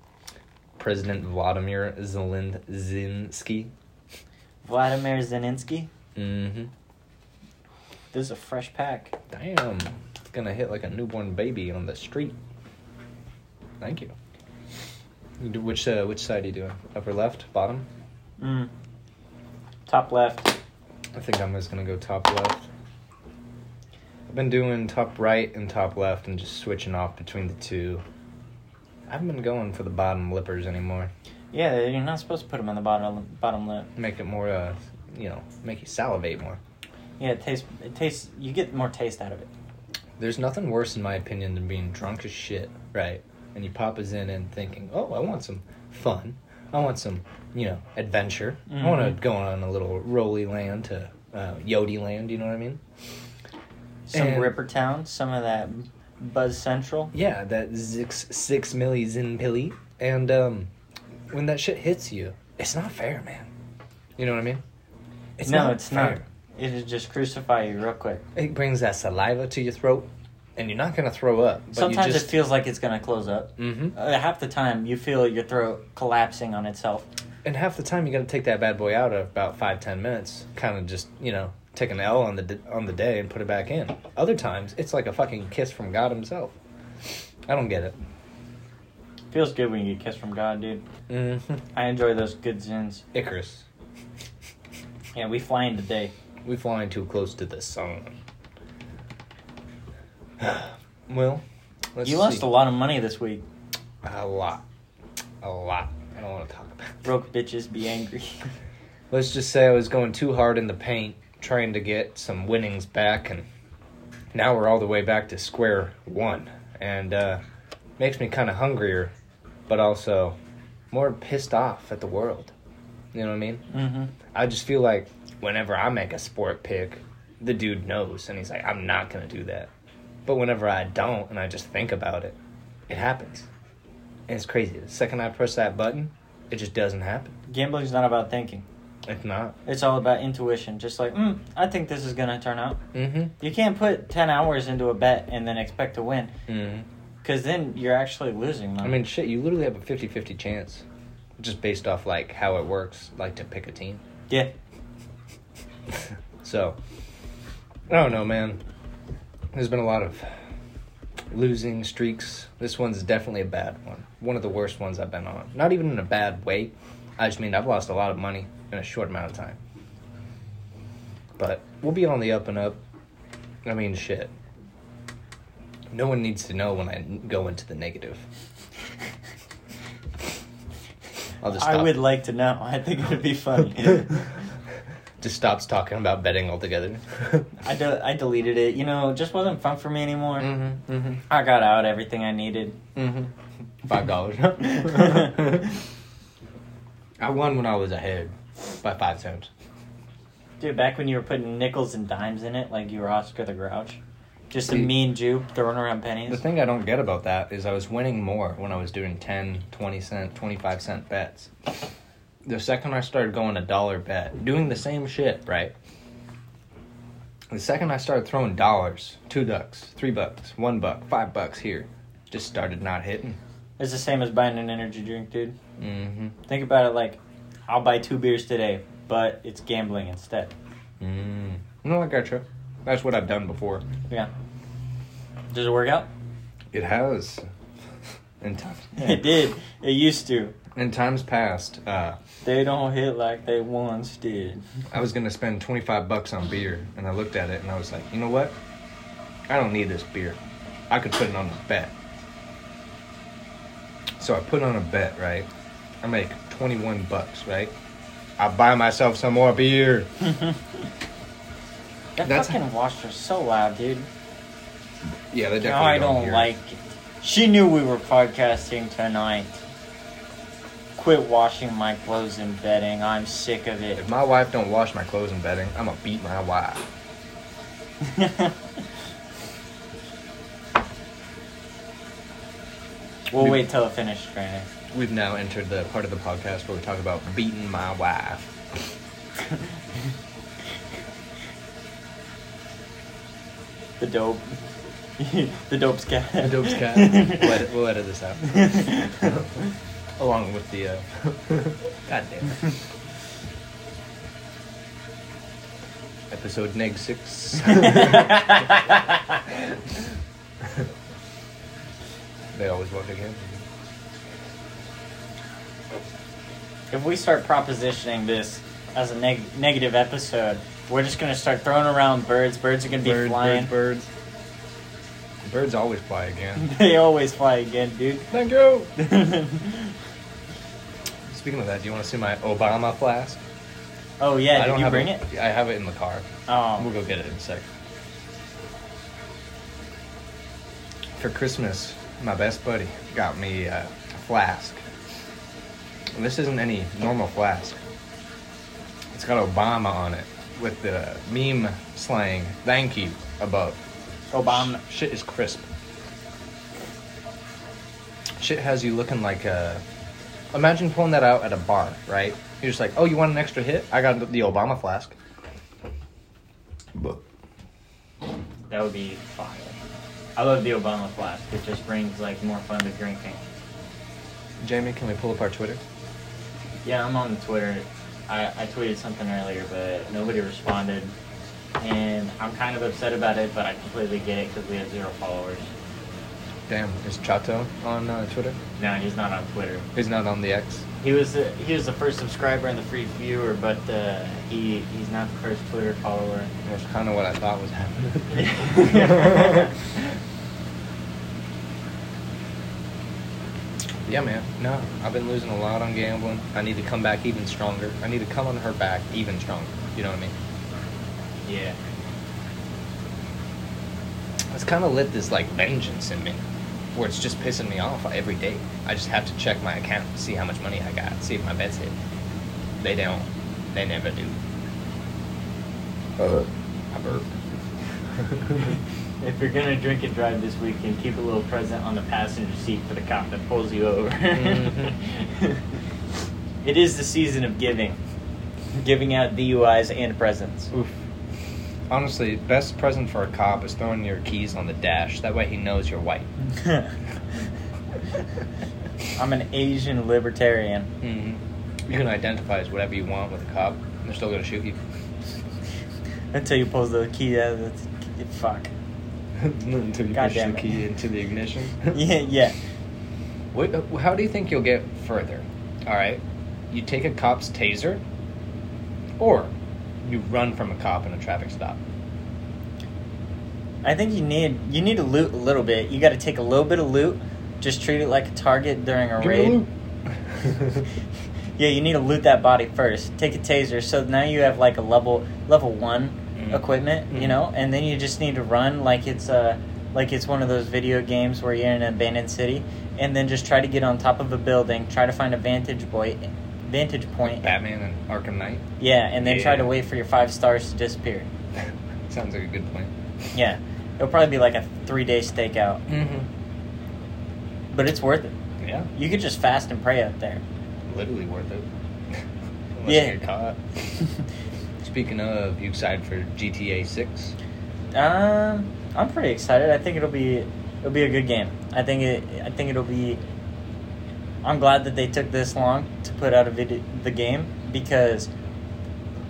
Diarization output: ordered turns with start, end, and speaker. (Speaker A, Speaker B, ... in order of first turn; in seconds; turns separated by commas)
Speaker A: 0.8-3.7, Speaker B: 4.6-5.9, Speaker A: 6.2-6.7, Speaker B: 8.1-9.1, Speaker A: 9.3-12.4, Speaker A: 13.8-14.1, Speaker A: 15.4-17.9, Speaker B: 18.4-18.7, Speaker B: 19.9-20.6, Speaker A: 21.1-22.7, Speaker A: 24.3-28.1, Speaker A: 29.1-31.1, Speaker B: 31.5-33.9, Speaker A: 34.0-36.6, Speaker B: 37.2-39.5, Speaker A: 40.2-52.8, Speaker B: 48.7-49.2, Speaker B: 54.1-57.1, Speaker A: 54.1-54.5, Speaker A: 57.1-60.7, Speaker A: 61.3-63.5, Speaker A: 64.2-64.6, Speaker A: 65.4-66.2, Speaker B: 65.5-68.2, Speaker A: 68.3-72.4, Speaker B: 71.7-77.1, Speaker A: 73.6-74.0, Speaker A: 77.4-86.6, Speaker A: 87.5-88.0, Speaker B: 89.3-90.9, Speaker A: 91.1-91.6, Speaker B: 91.8-93.0, Speaker A: 93.1-93.7, Speaker B: 95.2-96.1, Speaker A: 96.5-98.2, Speaker A: 100.4-101.4, Speaker A: 102.0-102.5, Speaker B: 102.0-103.4, Speaker A: 104.0-104.6, Speaker A: 105.4-107.0, Speaker B: 107.0-108.5, Speaker A: 109.1-113.5, Speaker A: 114.3-117.4, Speaker A: 118.0-119.1, Speaker A: 119.7-120.4, Speaker A: 120.9-122.5, Speaker A: 123.1-123.7, Speaker B: 123.7-124.1, Speaker A: 124.3-129.7, Speaker A: 130.3-132.4, Speaker A: 132.9-133.5, Speaker A: 134.3-137.3, Speaker B: 137.5-138.7, Speaker A: 139.1-139.6, Speaker B: 139.7-142.8, Speaker A: 142.9-143.3, Speaker B: 143.4-146.3, Speaker A: 146.5-146.9, Speaker B: 147.2-149.0, Speaker A: 148.8-150.8, Speaker A: 151.4-154.0, Speaker B: 154.3-154.5, Speaker A: 155.9-156.8, Speaker A: 157.9-158.6, Speaker A: 159.5-160.3, Speaker A: 161.3-169.6, Speaker A: 171.4-172.8, Speaker A: 173.7-174.3, Speaker A: 175.9-178.2, Speaker A: 181.4-182.0, Speaker B: 181.6-184.3, Speaker A: 185.2-187.5, Speaker B: 187.6-190.5, Speaker A: 190.4-191.2, Speaker B: 191.3-192.8, Speaker A: 192.9-193.3, Speaker A: 193.8-195.8, Speaker B: 194.7-195.4, Speaker A: 197.2-199.5, Speaker B: 200.6-204.0, Speaker B: 204.5-206.4, Speaker A: 204.7-204.9, Speaker A: 206.3-211.5, Speaker A: 212.4-215.7, Speaker A: 217.5-223.4, Speaker B: 223.8-225.6, Speaker A: 225.8-226.3, Speaker B: 226.5-230.5, Speaker A: 231.0-233.8, Speaker B: 235.5-236.1, Speaker A: 236.7-237.4, Speaker A: 238.4-239.3, Speaker B: 239.0-240.6, Speaker A: 240.8-242.2, Speaker B: 242.4-244.6, Speaker A: 244.9-248.6, Speaker A: 249.5-250.4, Speaker A: 250.9-251.9, Speaker A: 254.2-255.5, Speaker A: 256.0-257.7, Speaker A: 258.4-260.1, Speaker B: 262.2-264.1, Speaker A: 262.2-262.6, Speaker A: 265.3-266.5, Speaker B: 265.6-269.6, Speaker B: 271.0-274.0, Speaker A: 274.0-276.9, Speaker B: 278.0-278.5, Speaker B: 283.3-284.7, Speaker A: 283.4-283.6, Speaker A: 284.9-288.4, Speaker B: 294.0-294.6, Speaker B: 295.2-297.6, Speaker A: 296.4-299.4, Speaker B: 298.5-299.4, Speaker A: 300.2-302.7, Speaker A: 306.3-308.5, Speaker B: 307.8-309.2, Speaker A: 312.5-313.6, Speaker B: 316.9-323.7, Speaker A: 323.0-324.1, Speaker A: 325.4-326.7, Speaker B: 326.6-328.3, Speaker A: 328.3-328.9, Speaker B: 329.0-329.9, Speaker A: 331.3-333.4, Speaker B: 334.2-335.3, Speaker A: 334.5-337.7, Speaker B: 336.5-336.9, Speaker A: 341.2-344.8, Speaker A: 346.1-347.8, Speaker A: 349.1-353.8, Speaker B: 354.3-354.8, Speaker A: 354.4-355.7, Speaker A: 358.4-359.8, Speaker A: 360.5-365.1, Speaker A: 366.9-367.2, Speaker B: 368.7-369.8, Speaker B: 370.4-373.4, Speaker A: 374.6-375.8, Speaker B: 376.8-381.1, Speaker B: 381.8-385.7, Speaker A: 386.7-388.6, Speaker B: 388.8-389.9, Speaker A: 389.9-390.9, Speaker B: 391.0-396.5, Speaker A: 396.6-399.7, Speaker B: 398.4-399.7, Speaker A: 404.1-410.4, Speaker B: 411.4-411.8, Speaker A: 414.5-416.4, Speaker A: 416.9-422.0, Speaker A: 422.8-424.4, Speaker A: 426.2-427.4, Speaker A: 428.2-428.8, Speaker B: 429.2-435.7, Speaker A: 434.3-435.0, Speaker B: 436.6-438.0, Speaker B: 438.8-440.7, Speaker A: 440.7-441.0, Speaker A: 441.9-446.3, Speaker B: 446.6-446.9, Speaker B: 449.1-450.9, Speaker A: 451.0-454.8, Speaker B: 456.3-458.7, Speaker A: 459.4-462.0, Speaker B: 460.1-460.8, Speaker B: 461.9-462.6, Speaker A: 463.5-468.0, Speaker A: 469.2-471.8, Speaker B: 473.8-479.6, Speaker A: 479.2-479.7, Speaker A: 480.3-480.8, Speaker B: 481.6-497.5, Speaker A: 486.4-487.4, Speaker A: 497.2-498.7, Speaker B: 498.8-501.3, Speaker A: 499.2-499.7, Speaker A: 501.6-502.9, Speaker B: 503.3-505.8, Speaker A: 505.9-506.3, Speaker B: 507.7-508.3, Speaker A: 508.6-508.9, Speaker B: 508.9-510.4, Speaker A: 510.9-512.2, Speaker A: 512.8-513.6, Speaker B: 512.9-513.2, Speaker A: 514.8-517.4, Speaker B: 517.9-523.2, Speaker B: 524.4-528.3